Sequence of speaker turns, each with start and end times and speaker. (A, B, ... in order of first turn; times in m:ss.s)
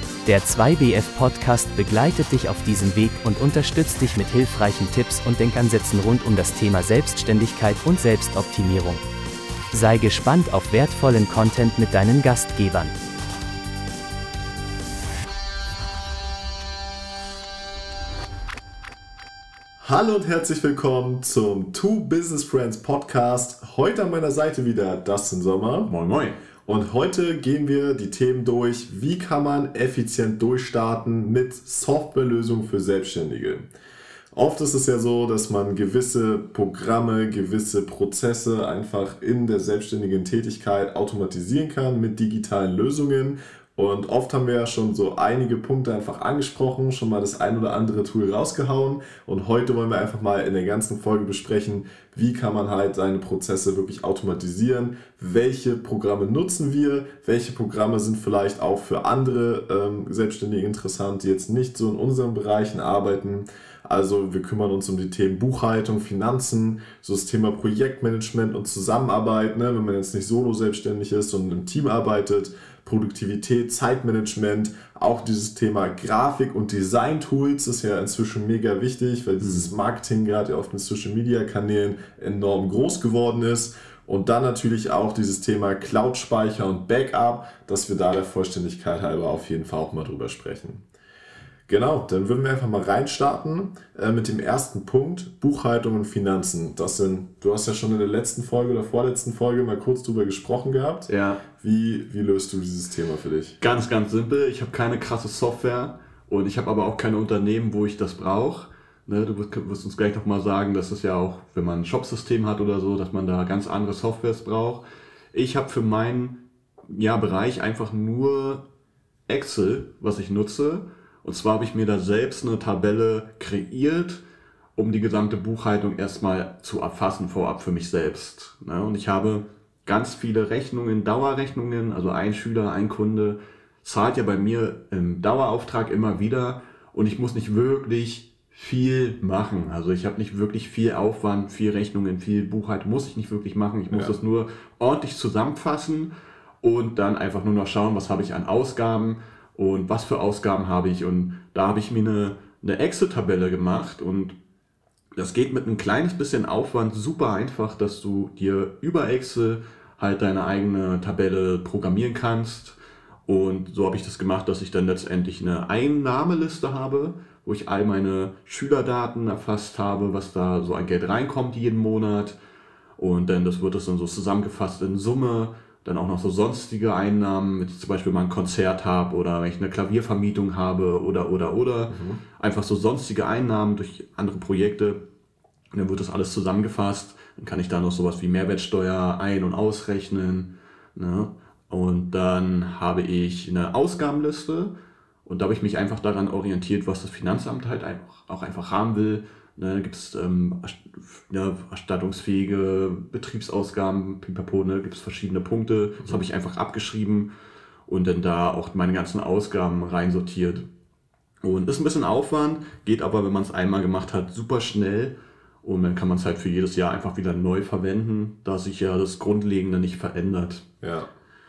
0:00.2-0:09.0 A
0:09.7-0:12.9 A
0:19.8-0:25.9 B
0:25.8-0:26.4 C
0:26.6-0:33.7 B
0:34.3-1:30.8 B
1:19.4-1:19.7 C
1:31.7-1:43.6 B
1:41.1-1:41.4 C
1:43.6-1:58.6 C
1:59.3-2:04.2 C
2:04.8-2:26.1 C
2:23.9-2:24.2 B
2:26.6-2:34.4 C
2:35.2-2:52.4 C
2:53.0-3:05.0 C
3:01.9-3:02.2 B
3:05.7-3:14.7 C
3:15.2-3:27.3 C
3:27.9-3:30.7 C
3:31.4-3:40.6 C
3:40.8-3:41.1 B